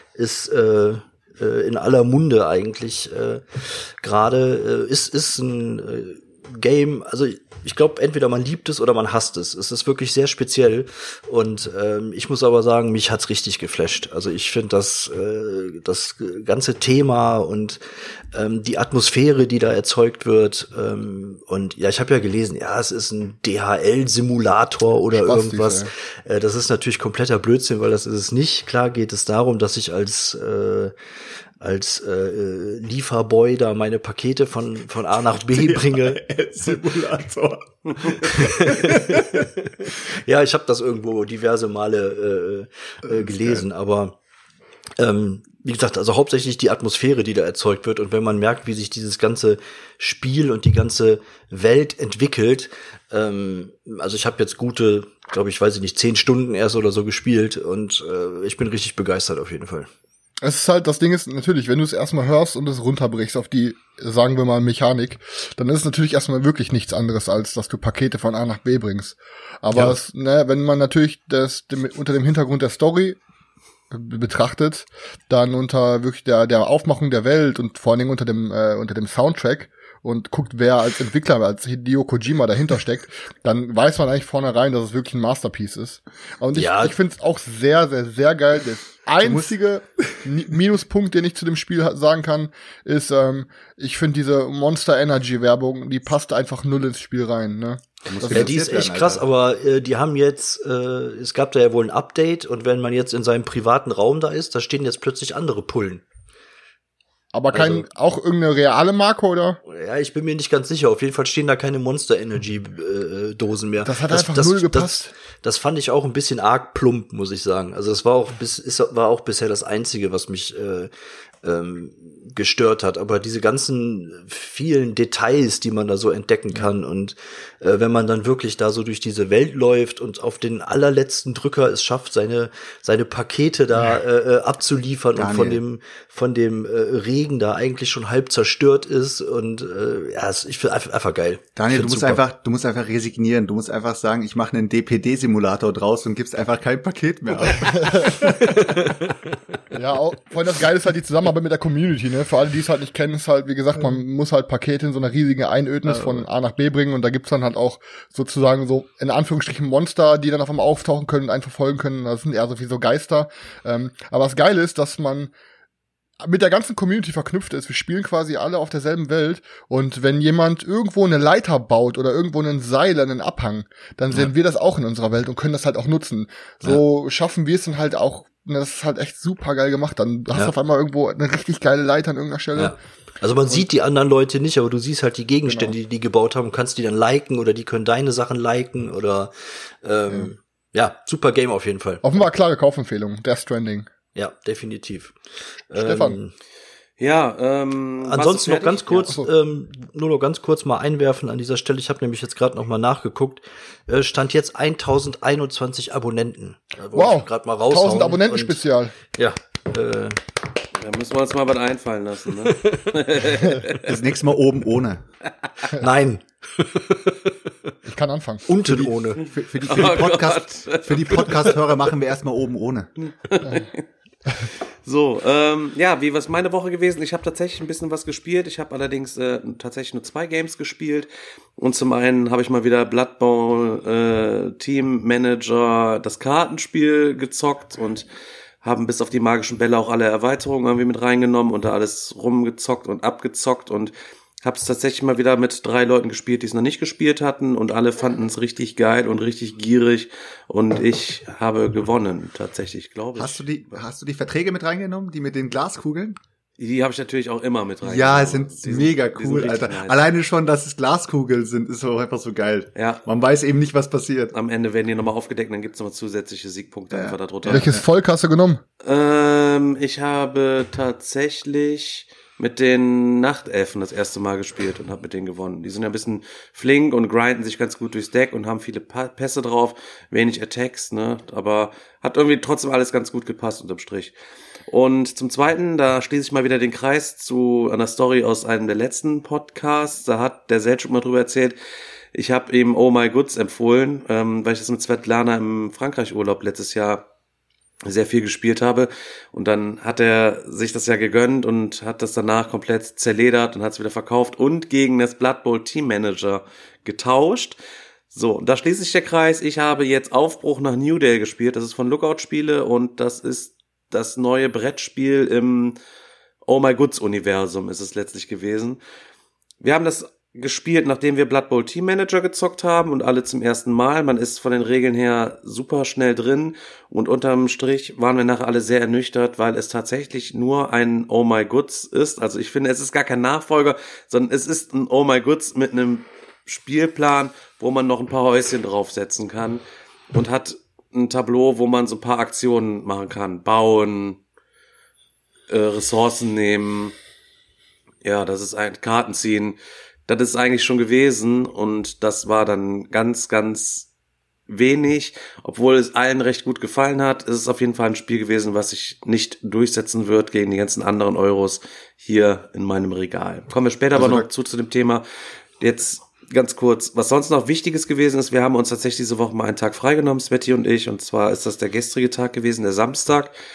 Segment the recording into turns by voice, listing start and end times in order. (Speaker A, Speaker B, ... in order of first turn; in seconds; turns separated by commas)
Speaker A: 0.2-17.8, Speaker A: 18.3-30.9, Speaker B: 25.1-25.9, Speaker A: 31.6-36.2, Speaker C: 35.5-39.5, Speaker A: 38.2-44.2, Speaker C: 43.1-43.6, Speaker A: 45.0-59.9, Speaker B: 60.4-73.2, Speaker B: 73.9-98.8, Speaker A: 86.5-87.0, Speaker C: 89.2-89.5, Speaker C: 98.1-99.3, Speaker A: 98.3-106.0, Speaker B: 107.3-109.6, Speaker A: 107.5-107.8, Speaker A: 109.7-120.9, Speaker B: 113.8-115.1, Speaker A: 121.4-142.2, Speaker C: 135.2-135.6, Speaker C: 141.6-148.8, Speaker B: 147.4-148.3, Speaker A: 148.5-149.1, Speaker B: 149.7-165.3, Speaker B: 166.2-182.8, Speaker A: 182.6-189.3, Speaker B: 185.5-185.8, Speaker A: 189.8-192.0, Speaker B: 192.0-193.9, Speaker A: 194.2-195.2, Speaker A: 195.7-196.3, Speaker B: 195.7-196.2, Speaker D: 197.0-198.9, Speaker A: 198.0-210.2, Speaker B: 198.9-199.3, Speaker B: 206.9-208.9, Speaker D: 210.8-213.9, Speaker C: 213.8-215.0, Speaker A: 215.8-217.3, Speaker B: 217.9-218.5, Speaker A: 218.5-219.2, Speaker C: 218.6-222.9, Speaker D: 219.6-221.6, Speaker D: 223.1-223.8, Speaker D: 224.8-238.1, Speaker D: 238.6-253.5, Speaker C: 253.2-256.2, Speaker D: 256.6-260.0, Speaker C: 257.8-264.3, Speaker D: 262.8-263.0, Speaker D: 264.3-267.8, Speaker C: 266.9-267.8, Speaker B: 267.5-268.6, Speaker D: 268.8-284.1, Speaker D: 284.7-291.6, Speaker D: 292.1-297.0, Speaker D: 297.9-307.6, Speaker D: 308.1-315.8, Speaker D: 316.4-318.8, Speaker D: 319.6-344.2, Speaker D: 345.5-346.9, Speaker D: 348.0-353.9, Speaker D: 354.5-365.0, Speaker C: 363.9-364.3, Speaker D: 365.6-373.3